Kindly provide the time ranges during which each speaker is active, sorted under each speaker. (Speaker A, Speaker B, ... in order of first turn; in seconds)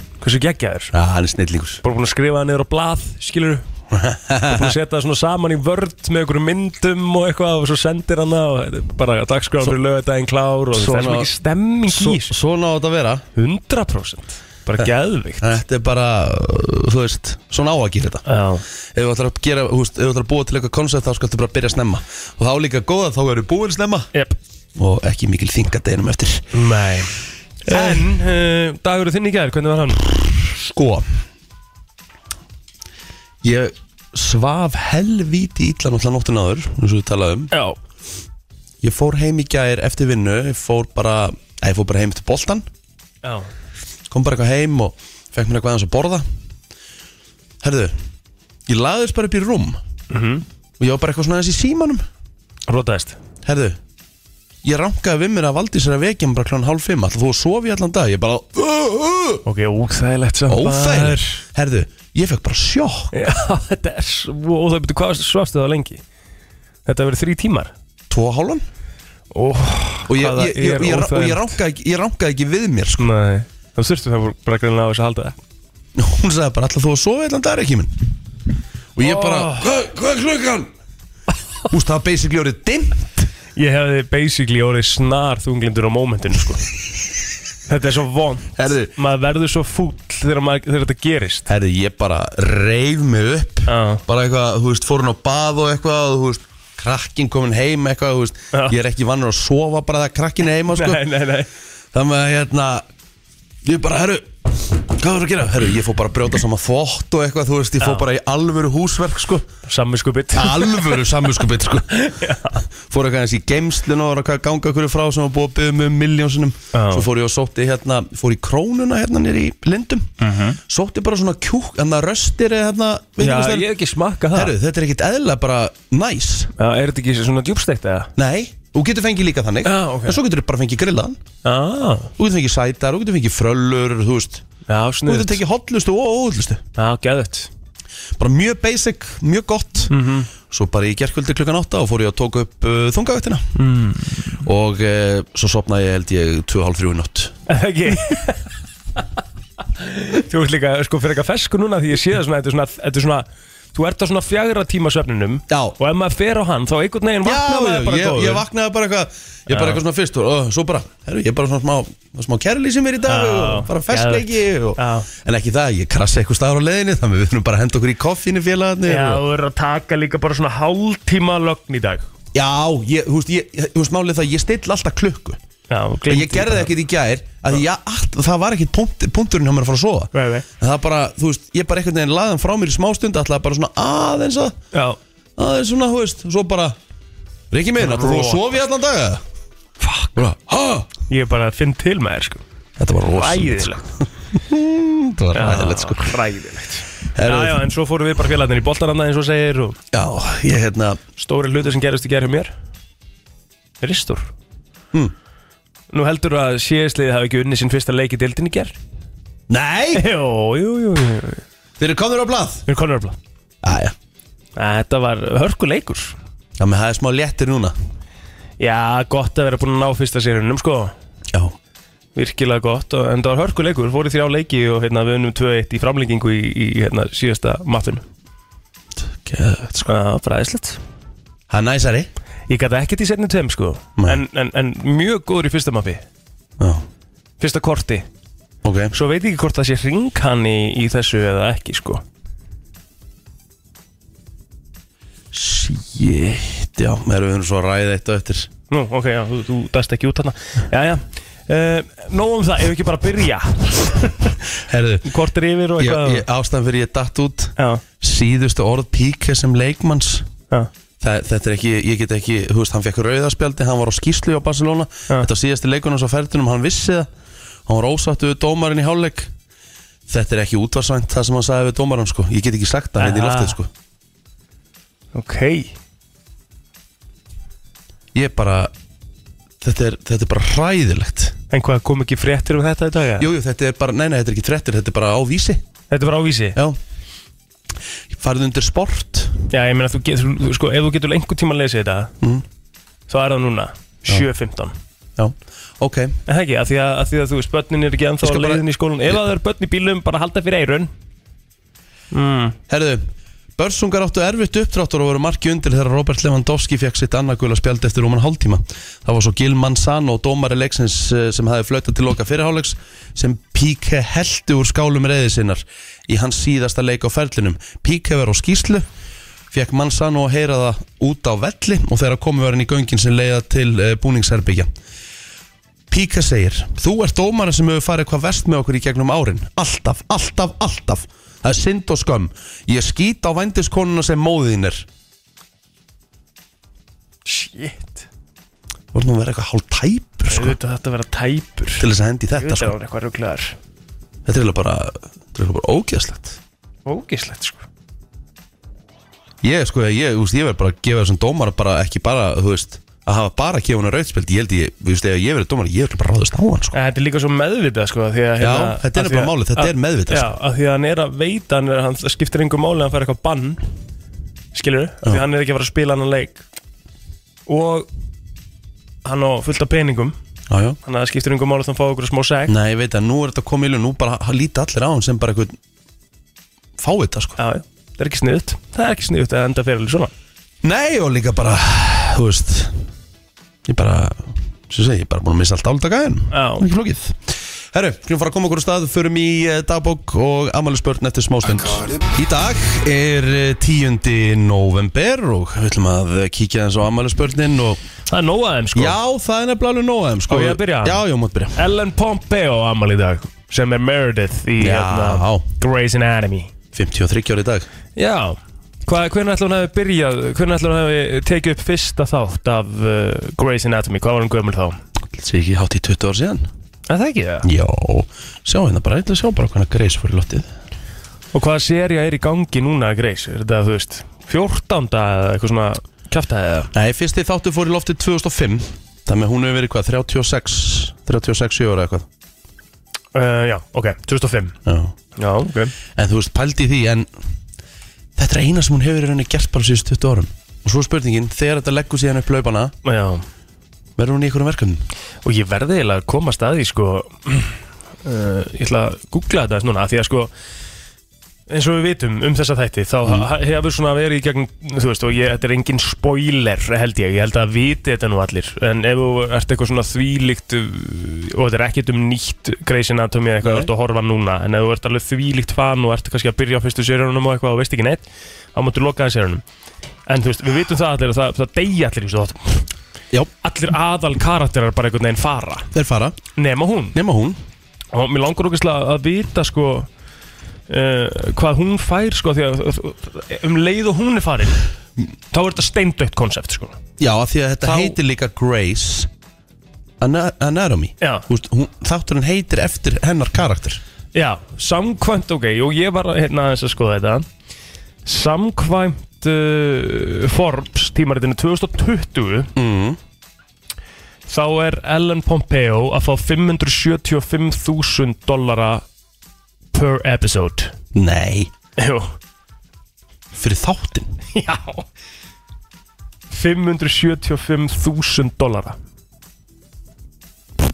Speaker A: 0.2-0.9, 1.8-3.6, 4.5-12.3, 13.4-15.6, 18.3-18.6, 26.5-27.1, 27.7-30.4, 37.5-37.8, 43.2-43.5, 50.1-50.5, 52.7-53.2, 59.5-61.4, 63.1-66.0, 66.9-67.7, 69.3-71.6, 73.0-75.4, 79.0-79.7, 83.6-86.6, 87.7-91.5, 93.7-94.0, 100.7-101.5, 109.7-111.2, 112.0-112.6, 116.7-117.1, 120.2-120.6, 123.2-124.5, 126.6-128.1, 129.7-130.2, 131.4-132.1, 134.7-135.4, 136.8-137.5, 139.9-140.3, 143.6-144.3, 147.5-148.4, 149.8-158.4, 159.5-159.8, 163.1-165.1, 168.8-172.1, 175.7-176.7, 180.1-180.5, 184.7-185.0, 187.8-188.5, 189.8-190.1, 191.1-192.4, 193.1-193.9, 195.3-199.8, 201.2-202.5, 203.8-204.3, 205.9-208.8, 209.9-211.4, 212.7-213.2, 214.6-216.2, 218.6-220.9, 222.2-228.1, 229.9-230.8, 232.5-236.0, 237.4-238.1, 238.9-242.0, 248.7-254.3, 255.1-256.2, 273.0-273.6, 275.1-275.7, 281.5-283.3, 285.9-286.6, 289.5-292.1, 293.1-294.8, 296.3-300.9, 302.1-302.6, 337.3-338.1, 340.3-343.6, 346.9-347.6, 356.7-363.6, 364.5-366.4, 367.5-367.9, 369.1-370.2, 370.9-372.5, 377.4-380.1, 386.3-386.7, 398.1-399.0, 400.3-401.0, 401.6-406.5, 408.0-414.8, 416.9-417.5, 421.3-426.7, 433.1-434.6, 435.2-435.7, 442.9-443.2, 445.2-450.3, 451.5-469.4, 470.1-472.7, 473.4-475.7, 476.4-477.0, 477.9-479.9, 480.7-484.6, 485.3-486.8, 487.6-488.0, 491.0-491.3, 494.1-497.3, 498.1-502.5, 504.3-508.9, 509.7-510.7, 511.8-512.1, 514.3-514.9, 516.3-518.8
Speaker B: 0.9-1.8, 3.9-4.8, 10.7-11.3, 11.9-13.2, 14.8-18.2, 18.9-24.1, 24.8-26.4, 27.7-28.1, 30.5-31.1, 33.4-37.5, 38.8-42.7, 44.1-46.3, 47.6-48.0, 48.7-49.8, 50.8-52.0, 53.4-53.8, 54.6-59.4, 60.5-63.1, 68.1-68.6, 70.1-73.1, 76.0-78.0, 79.0-80.7, 81.7-83.3, 88.6-88.9, 91.5-101.1, 101.9-102.9, 103.6-109.5, 110.3-112.2, 112.9-123.7, 124.3-126.5, 128.2-131.2, 132.2-134.4, 135.1-136.6, 138.2-139.9, 140.4-143.6, 144.4-147.3, 155.5-155.8, 157.2-169.2, 172.3-175.4, 176.1-184.6, 185.4-186.8, 187.5-189.2, 190.2-190.9, 192.8-196.1, 197.2-197.7, 199.9-201.0, 209.5-210.1, 211.8-212.7, 213.6-213.9, 216.6-217.8, 229.1-229.9, 231.5-232.1, 236.6-236.8, 238.6-238.9, 245.3-248.5, 254.7-255.1, 255.8-260.3, 261.0-267.1, 267.7-269.3, 270.1-273.7, 278.1-278.7, 279.6-281.4, 283.2-285.6, 288.1-289.4, 295.2-296.2, 298.2-299.2, 302.7-318.9, 319.5-324.7, 325.9-334.9, 338.9-340.6, 341.8-342.8, 344.3-346.4, 349.4-356.8, 358.4-360.3, 370.5-370.8, 372.5-375.6, 376.8-377.4, 380.6-382.9, 383.7-397.8, 398.7-401.6, 404.6-405.4, 406.7-407.7, 415.1-416.5, 417.4-420.5, 426.7-432.1, 434.7-434.9, 436.0-437.1, 438.2-442.7, 444.0-444.8, 463.4-463.7, 475.7-476.2, 476.9-477.4, 487.0-489.1, 490.0-493.8, 502.6-503.0, 510.9-511.5, 513.3-514.1